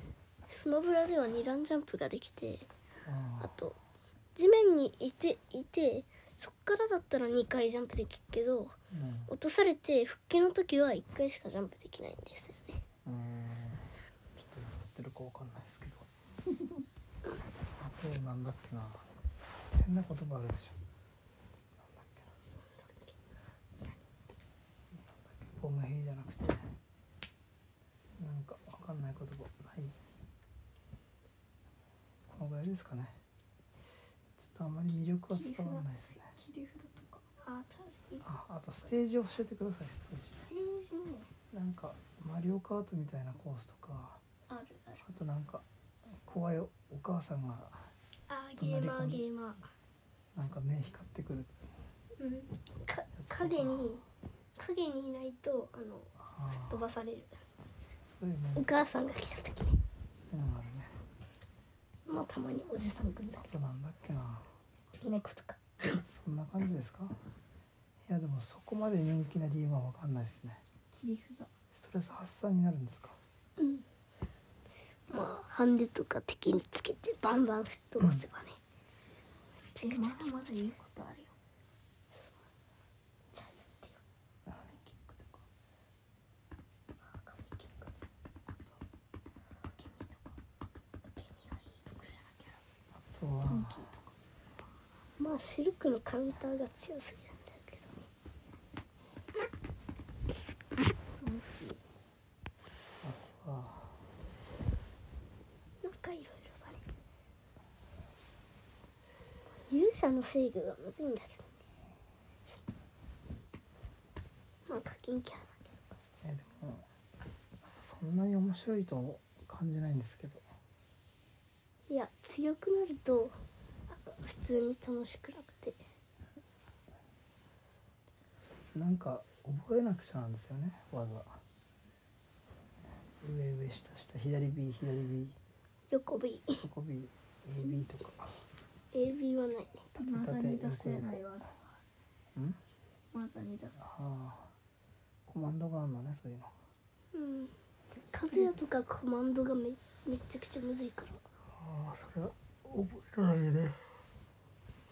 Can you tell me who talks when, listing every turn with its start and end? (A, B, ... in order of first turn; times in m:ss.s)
0:00.5-0:02.7 A
0:03.0-0:03.5 B
0:03.4-0:03.8 A
0:04.3-0:08.8 A
0:08.9-0:09.3 B
0:09.3-0:12.8 A
0:13.0-0:16.1 B
0:17.8-0:19.0 B
0:19.7-0:20.8 B
0:21.8-0:22.3 B
0:22.8-0:23.1 A
0:24.9-0:26.7 B
0:28.2-0:30.0 B
0:32.3-0:33.2 B
0:34.4-0:36.3 B
0:35.3-0:37.2 C
0:37.4-0:38.3 A
0:38.2-0:40.4 B
0:40.4-0:41.3 A
0:41.5-0:44.2 B
0:44.5-0:45.0 A
0:45.0-0:45.6 B
0:46.2-0:47.9 B
0:48.3-0:49.6 A
0:48.6-0:49.2 B
0:50.3-0:51.6 B
0:52.2-0:54.0 A
0:53.2-0:54.0 B
0:54.6-0:57.3 A
0:56.2-0:56.8 B
0:58.1-0:58.8 B
0:58.6-0:59.8 A
1:00.2-1:00.9 B
1:02.1-1:03.5 A
1:03.4-1:04.4 B
1:05.0-1:06.0 A
1:05.9-1:07.1 B
1:08.1-1:10.6 B
1:10.9-1:11.5 C
1:11.7-1:13.2 B
1:13.6-1:13.8 A
1:15.1-1:18.6 A
1:19.7-1:20.7 A
1:19.8-1:21.3 C
1:22.1-1:22.4 A
1:23.3-1:24.0 A
1:24.5-1:25.4 B
1:27.1-1:27.9 A
1:29.8-1:30.1 A
1:31.1-1:31.9 A
1:31.9-1:32.5 C
1:32.9-1:33.8 B
1:33.4-1:34.1 C
1:35.2-1:38.1 A
1:41.2-1:41.8 C
1:43.0-1:44.0 B
1:45.8-1:46.8 A
1:49.7-1:51.5 A
1:54.7-1:55.7 A
1:56.2-2:00.4 B
2:01.9-2:03.4 A
2:03.9-2:05.8 A
2:08.7-2:11.4 B
2:13.2-2:15.4 B
2:15.9-2:16.6 A
2:16.6-2:18.4 B
2:18.9-2:19.9 A
2:20.0-2:21.2 B
2:20.0-2:21.6 C
2:23.1-2:23.8 C
2:23.8-2:24.5 B
2:25.3-2:26.5 B
2:27.1-2:27.5 A
2:28.1-2:31.2 A
2:31.6-2:33.8 B